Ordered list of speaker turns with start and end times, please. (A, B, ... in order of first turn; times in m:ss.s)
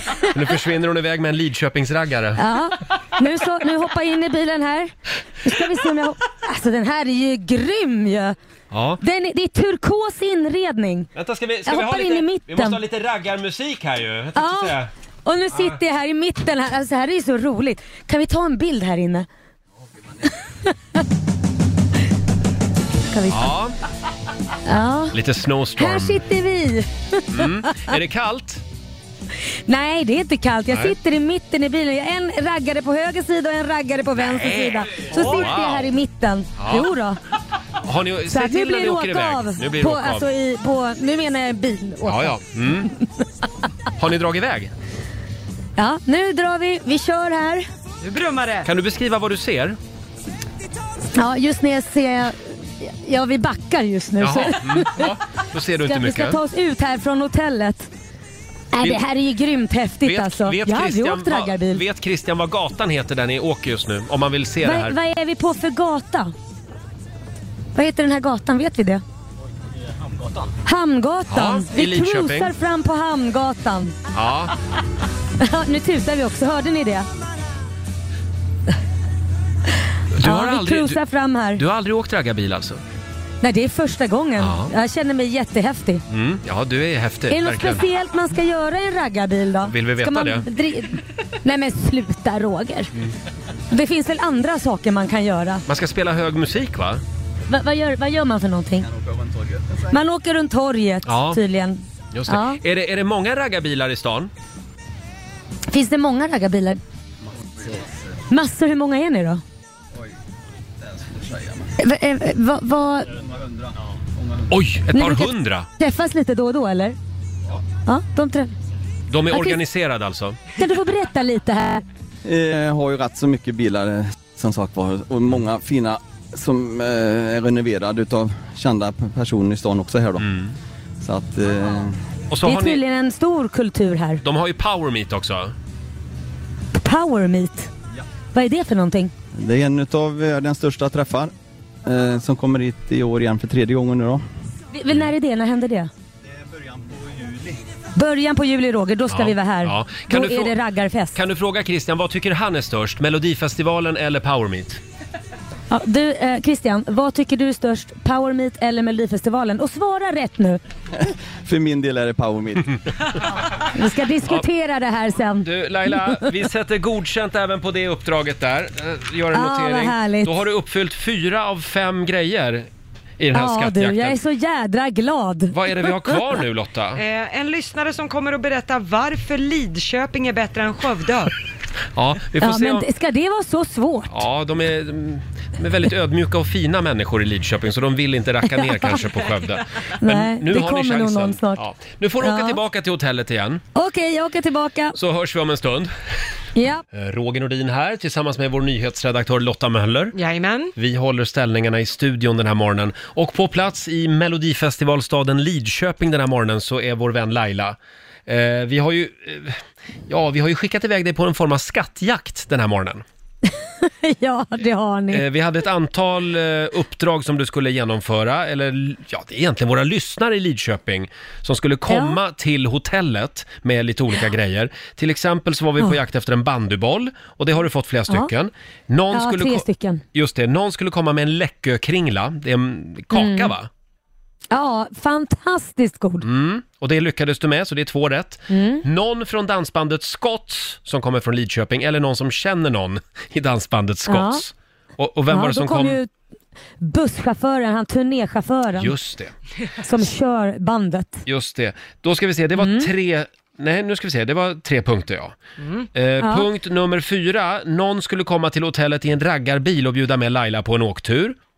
0:00.3-0:02.4 A
0:02.4-0:08.4 B
0:08.7-0:09.0 A
0:09.0-0:11.1 B
0:11.2-0:14.9 A
0:11.7-0:12.8 B
0:14.4-0:19.3 B
0:23.1-0:23.5 B
0:23.3-0:23.8 A
0:24.7-0:25.2 B
0:25.1-0:26.2 A
0:25.8-0:28.0 B
0:27.3-0:28.6 A
0:29.7-0:37.2 B
0:30.7-0:31.0 A
0:34.2-0:35.9 A
0:36.6-0:36.9 A
0:37.8-0:40.3 A
0:38.3-0:42.8 B
0:42.1-0:42.9 A
0:44.0-0:44.7 A
0:45.8-0:47.7 B
0:48.0-0:48.7 C
0:48.6-0:49.8 A
0:51.1-0:55.1 B
0:54.2-0:56.4 A
0:55.8-0:57.9 B
0:58.7-1:01.8 B
1:00.0-1:05.0 A
1:04.6-1:06.3 B
1:07.8-1:09.0 B
1:10.7-1:14.0 B
1:11.3-1:12.5 A
1:14.1-1:14.5 A
1:15.4-1:17.1 B
1:20.1-1:21.0 A
1:20.2-1:21.6 B
1:21.6-1:22.8 A
1:23.4-1:26.0 B
1:24.4-1:24.7 A
1:26.1-1:27.8 A
1:27.3-1:32.9 B
1:29.6-1:30.5 A
1:33.7-1:35.6 B
1:35.7-1:37.0 A
1:37.5-1:38.9 B
1:38.8-1:39.9 D
1:39.9-1:42.6 B
1:41.1-1:41.4 A
1:42.1-1:44.3 A
1:45.7-1:46.8 B
1:48.3-1:49.4 B
1:51.0-1:51.7 D
1:51.8-1:53.1 B
1:54.5-1:55.7 A
1:54.9-1:57.0 B
1:57.9-1:58.5 B
1:59.1-2:00.4 A
1:59.3-1:59.6 B
2:00.6-2:01.8 B
2:02.3-2:10.3 D
2:10.2-2:10.5 A
2:11.0-2:12.0 D
2:12.3-2:12.8 A
2:12.4-2:14.2 B
2:14.2-2:15.5 A
2:16.7-2:17.7 B
2:18.3-2:19.1 B
2:19.4-2:21.3 D
2:21.9-2:24.2 D
2:24.7-2:25.9 B
2:26.6-2:27.5 D
2:28.0-2:31.2 B
2:29.1-2:30.6 A
2:31.1-2:34.8 A
2:35.7-2:40.6 B
2:41.5-2:42.7 D
2:43.7-2:46.0 B
2:45.4-2:52.7 A
2:49.3-2:50.4 B
2:53.2-2:54.2 A
2:53.3-2:55.9 B
2:55.5-2:57.0 A
2:57.0-3:01.3 C
3:02.0-3:02.9 A
3:02.4-3:04.2 B
3:04.1-3:13.6 A
3:08.5-3:09.0 B
3:10.0-3:11.6 B
3:12.2-3:12.6 B
3:13.8-3:15.0 B
3:14.9-3:15.9 A
3:16.6-3:16.8 B
3:16.9-3:20.2 A
3:20.1-3:20.7 C
3:20.8-3:33.0 A
3:33.5-3:35.2 B
3:35.1-3:53.7 A
3:41.9-3:42.2 B
3:49.1-3:50.0 B
3:53.1-3:53.5 B
3:54.5-3:56.2 B
3:56.2-4:06.0 A
3:58.5-3:58.8 B
4:04.1-4:04.4 B
4:05.3-4:06.1 B
4:06.8-4:09.0 B
4:08.8-4:09.3 A
4:09.9-4:11.2 B
4:11.3-4:15.4 A
4:12.6-4:12.9 B
4:15.6-4:15.9 C
4:16.0-4:21.4 A
4:16.2-4:16.5 B